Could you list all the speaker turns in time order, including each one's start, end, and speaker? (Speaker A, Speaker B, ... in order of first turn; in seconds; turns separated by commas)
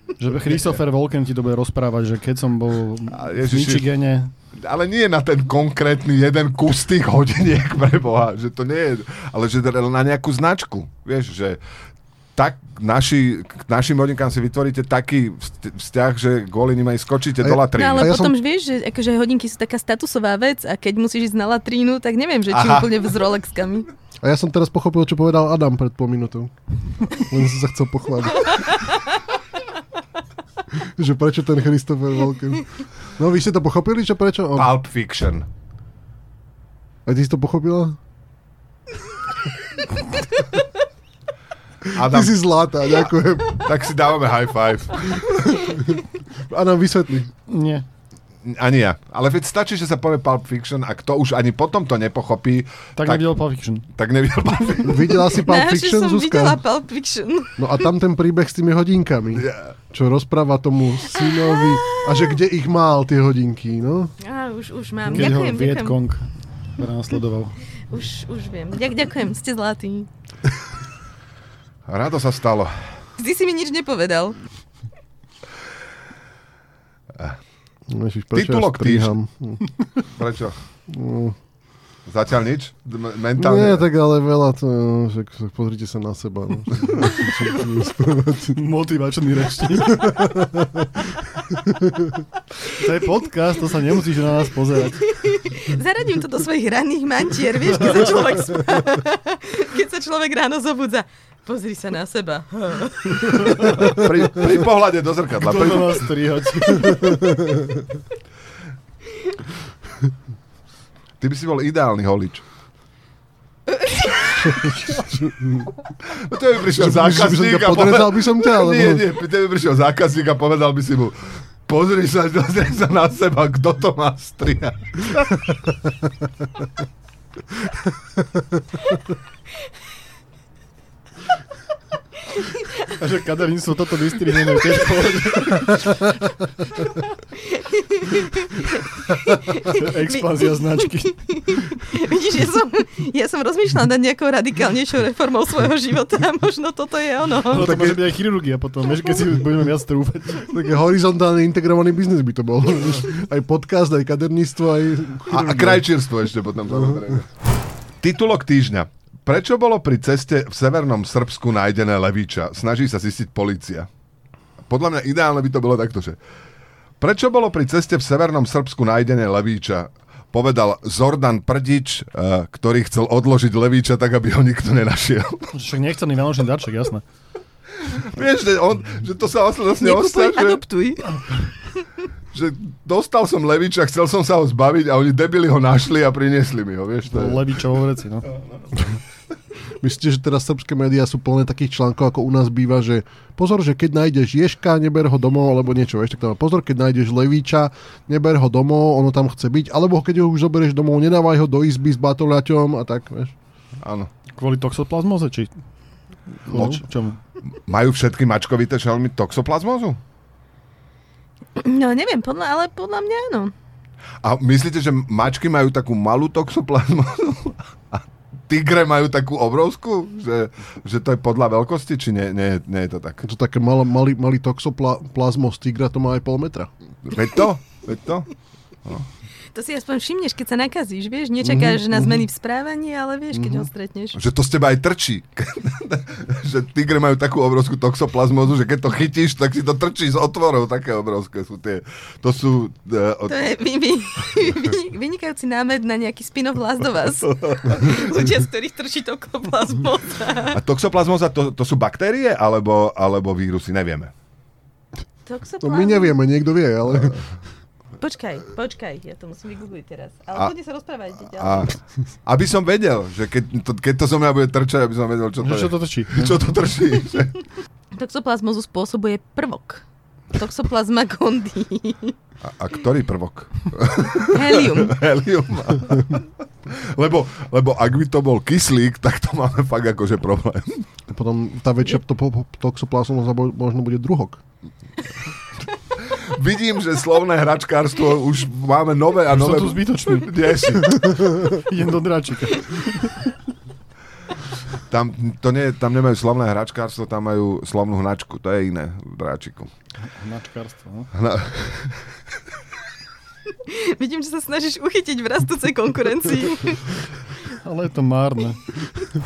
Speaker A: 0.2-4.3, Speaker B: 3.1-3.9, Speaker B: 4.6-11.6, Speaker B: 12.4-18.1, Speaker C: 17.4-18.4, Speaker D: 17.7-23.9, Speaker B: 22.5-22.9, Speaker C: 24.2-26.5, Speaker C: 27.0-28.7, Speaker C: 30.7-34.7, Speaker B: 34.5-35.5, Speaker C: 37.0-38.0, Speaker B: 41.9-42.4, Speaker C: 41.9-43.6, Speaker B: 43.6-45.6, Speaker C: 45.3-47.3, Speaker A: 47.5-47.8, Speaker B: 48.4-53.3, Speaker A: 53.0-53.9, Speaker B: 53.9-55.2, Speaker C: 54.8-56.6, Speaker D: 55.3-57.6, Speaker C: 57.6-64.1, Speaker B: 59.3-59.7, Speaker D: 61.1-62.2, Speaker D: 64.2-66.0, Speaker A: 65.1-67.5, Speaker D: 67.9-70.1, Speaker B: 71.9-72.7, Speaker D: 73.2-74.4, Speaker C: 77.9-79.7, Speaker B: 78.3-79.2, Speaker B: 80.1-80.5, Speaker C: 80.9-81.4, Speaker B: 82.1-83.9, Speaker C: 83.4-88.6, Speaker A: 88.5-90.3, Speaker C: 89.9-90.9, Speaker C: 91.6-92.2, Speaker A: 92.7-95.2, Speaker D: 95.0-103.8, Speaker A: 103.4-103.8, Speaker B: 103.7-106.1, Speaker A: 105.3-107.4, Speaker C: 106.9-107.6, Speaker B: 111.2-112.4, Speaker C: 114.9-115.7, Speaker B: 116.0-125.4, Speaker C: 116.7-119.0, Speaker A: 132.9-136.1, Speaker D: 137.3-147.8, Speaker A: 139.5-141.7, Speaker A: 147.5-150.5, Speaker C: 147.5-148.1, Speaker C: 150.5-155.9, Speaker B: 155.3-157.3, Speaker B: 158.0-163.9, Speaker B: 164.7-166.2, Speaker B: 167.0-175.5, Speaker A: 175.5-177.0, Speaker B: 177.8-180.6, Speaker D: 179.8-181.1, Speaker B: 182.3-187.5, Speaker A: 187.1-188.3, Speaker C: 189.8-203.3, Speaker B: 203.8-204.1, Speaker A: 204.3-205.5, Speaker A: 206.4-207.2, Speaker C: 206.5-206.8, Speaker B: 207.5-210.0, Speaker D: 211.6-213.5, Speaker B: 214.2-223.2, Speaker C: 223.2-226.7, Speaker B: 227.0-228.3, Speaker D: 229.5-234.2, Speaker C: 231.4-232.2, Speaker C: 233.3-233.7, Speaker B: 234.1-243.4, Speaker D: 243.3-250.6, Speaker B: 247.3-248.0, Speaker B: 250.5-254.1, Speaker D: 255.2-256.2, Speaker C: 255.6-257.2, Speaker D: 258.0-261.7, Speaker B: 261.3-261.7, Speaker B: 262.2-267.4, Speaker A: 265.4-266.4, Speaker D: 267.9-272.1, Speaker B: 272.4-280.9, Speaker D: 274.3-275.0, Speaker C: 281.1-284.4, Speaker B: 286.0-291.1, Speaker A: 289.3-290.3, Speaker A: 291.3-293.3, Speaker B: 294.9-299.7, Speaker A: 300.1-301.1, Speaker B: 301.1-302.0, Speaker D: 303.6-306.9, Speaker A: 307.6-308.6